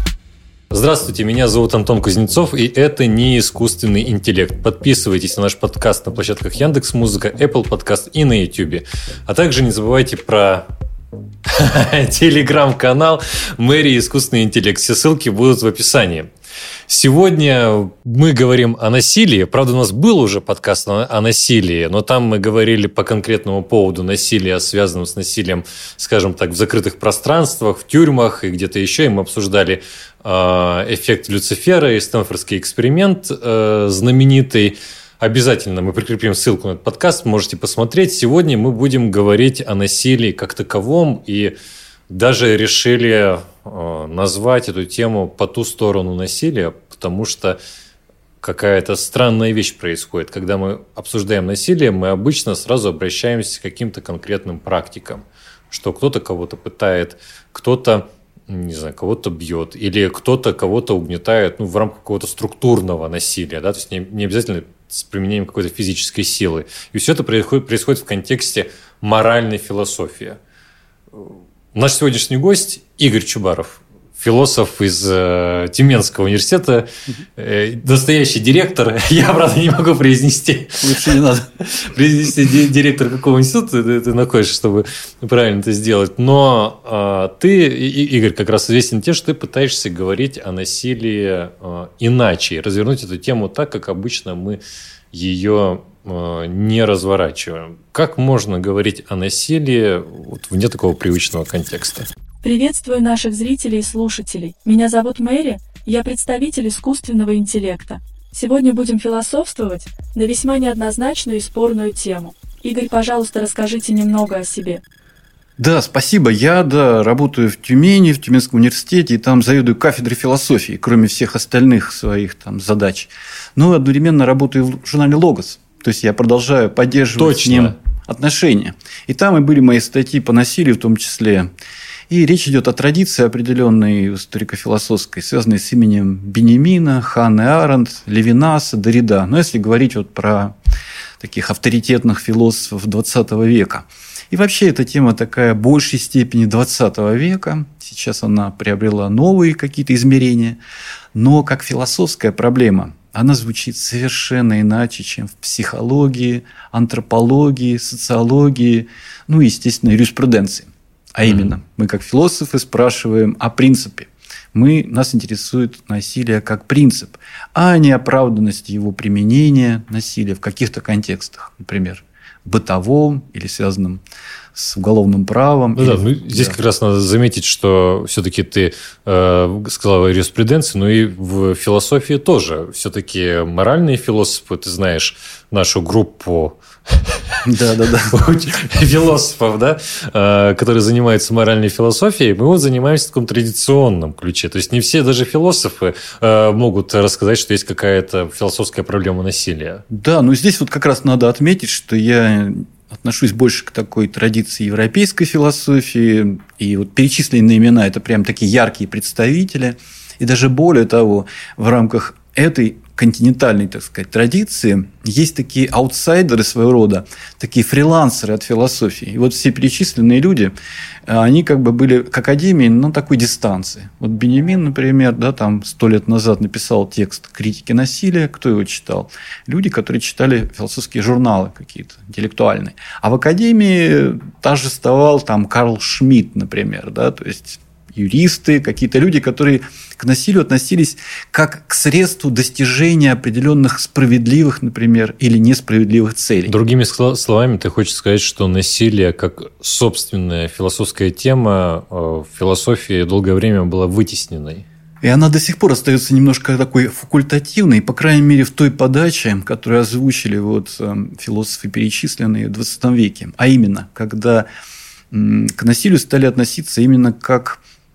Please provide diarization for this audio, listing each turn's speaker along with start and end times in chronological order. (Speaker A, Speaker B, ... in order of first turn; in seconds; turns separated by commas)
Speaker A: 0.7-10.7, Speaker A: 11.5-16.3, Speaker A: 16.9-41.5, Speaker A: 42.1-47.6, Speaker A: 48.4-70.4, Speaker A: 71.2-94.6, Speaker B: 80.8-81.5, Speaker A: 95.1-102.1, Speaker C: 102.4-114.8, Speaker B: 115.6-131.5, Speaker A: 127.2-127.8, Speaker B: 132.1-140.6, Speaker B: 141.2-150.6, Speaker B: 151.1-174.0, Speaker A: 161.3-161.5, Speaker B: 174.5-176.6, Speaker A: 175.8-186.6, Speaker B: 187.4-188.2, Speaker A: 188.1-199.8, Speaker B: 199.9-220.6, Speaker B: 221.1-246.6, Speaker A: 246.5-254.7, Speaker B: 255.0-264.5, Speaker B: 265.1-267.6